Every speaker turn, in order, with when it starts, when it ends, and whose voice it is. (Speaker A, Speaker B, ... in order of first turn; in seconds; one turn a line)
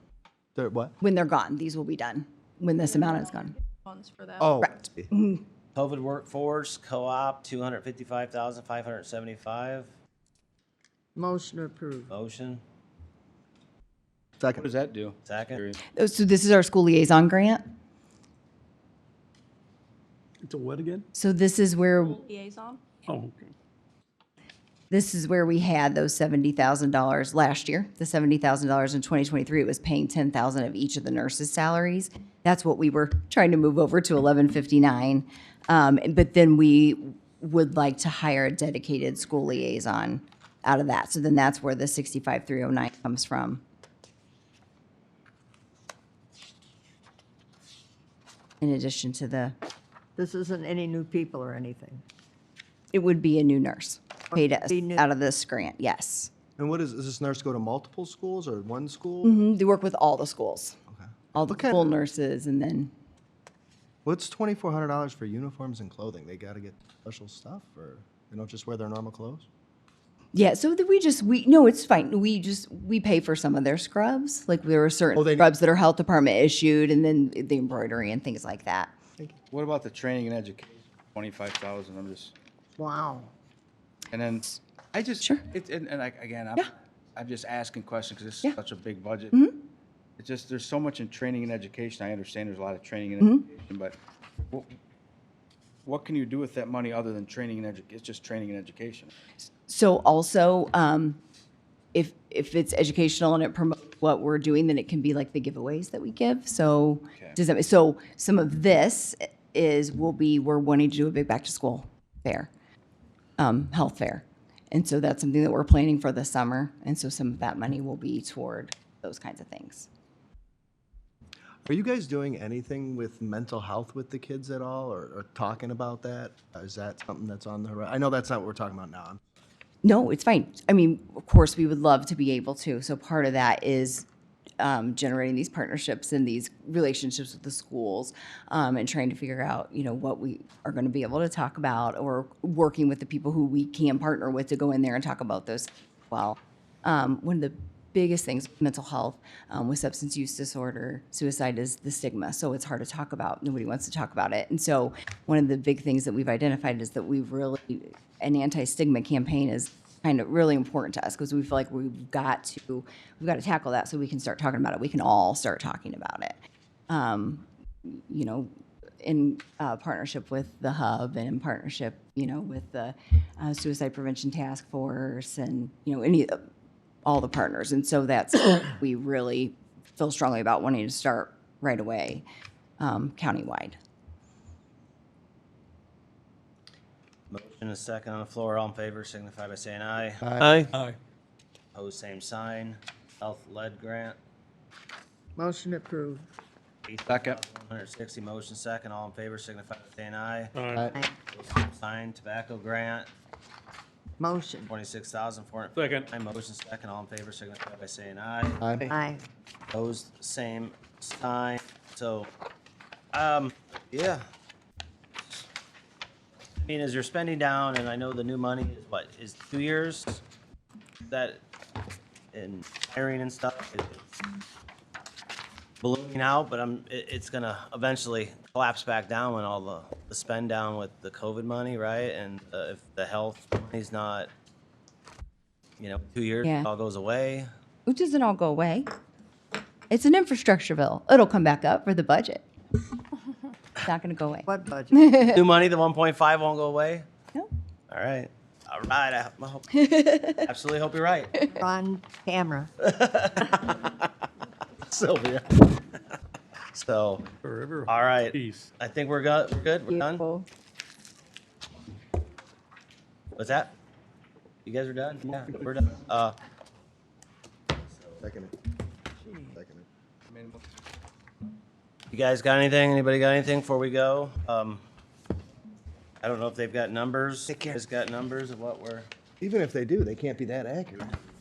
Speaker A: 0.5-0.9
Speaker B: 1.0-3.5
Speaker C: 3.1-4.5
Speaker A: 4.4-5.1
Speaker B: 4.6-5.4
Speaker D: 5.7-9.9
Speaker E: 11.2-12.1
Speaker D: 12.1-12.6
Speaker A: 14.4-14.6
Speaker F: 14.5-15.8
Speaker D: 15.2-15.6
Speaker B: 15.9-17.6
Speaker G: 20.4-21.0
Speaker B: 21.1-22.2
Speaker C: 21.9-23.0
Speaker G: 23.1-23.5
Speaker B: 24.9-43.6
Speaker B: 48.6-49.5
Speaker E: 50.2-52.0
Speaker B: 52.9-56.3
Speaker E: 54.3-55.0
Speaker A: 56.6-59.4
Speaker B: 59.2-60.8
Speaker A: 60.9-62.0
Speaker B: 61.3-62.9
Speaker A: 64.0-69.5
Speaker B: 70.3-78.9
Speaker A: 75.1-75.5
Speaker F: 79.5-82.3
Speaker E: 82.8-83.3
Speaker F: 84.1-89.4
Speaker B: 89.3-89.6
Speaker F: 90.2-94.0
Speaker B: 93.2-93.5
Speaker F: 94.5-94.8
Speaker F: 95.8-99.1
Speaker B: 99.7-101.2
Speaker B: 101.9-112.5
Speaker B: 113.4-119.9
Speaker A: 121.7-129.2
Speaker B: 129.8-134.1
Speaker B: 134.6-166.4
Speaker B: 166.9-168.5
Speaker B: 169.0-176.4
Speaker B: 177.0-182.2
Speaker B: 182.8-183.8
Speaker D: 187.3-190.7
Speaker A: 190.2-190.5
Speaker D: 191.7-194.2
Speaker E: 195.3-196.2
Speaker D: 196.8-200.5
Speaker F: 197.1-197.4
Speaker G: 200.5-200.9
Speaker D: 201.3-203.1
Speaker E: 204.2-204.7
Speaker D: 204.6-208.6
Speaker G: 205.8-206.1
Speaker A: 208.6-208.9
Speaker E: 208.9-209.2
Speaker D: 209.7-212.3
Speaker D: 213.1-214.2
Speaker D: 216.6-220.2
Speaker D: 221.1-221.4
Speaker D: 222.3-224.1
Speaker D: 225.8-234.3
Speaker D: 235.8-237.5
Speaker B: 236.4-236.7
Speaker B: 237.8-238.9
Speaker B: 239.9-242.4
Speaker B: 243.8-245.4
Speaker E: 244.4-245.0
Speaker D: 245.2-247.1
Speaker D: 247.9-251.5
Speaker B: 249.7-250.4
Speaker E: 251.6-252.7
Speaker D: 252.8-254.0
Speaker D: 254.9-255.6
Speaker D: 256.7-257.3
Speaker G: 257.4-258.7
Speaker D: 257.9-260.3
Speaker B: 259.9-260.4
Speaker D: 263.4-263.7
Speaker D: 264.6-266.3
Speaker G: 265.2-265.8
Speaker A: 268.2-268.5
Speaker A: 269.5-269.9
Speaker F: 270.3-270.6
Speaker D: 272.1-274.8
Speaker D: 276.2-279.1
Speaker A: 279.4-281.1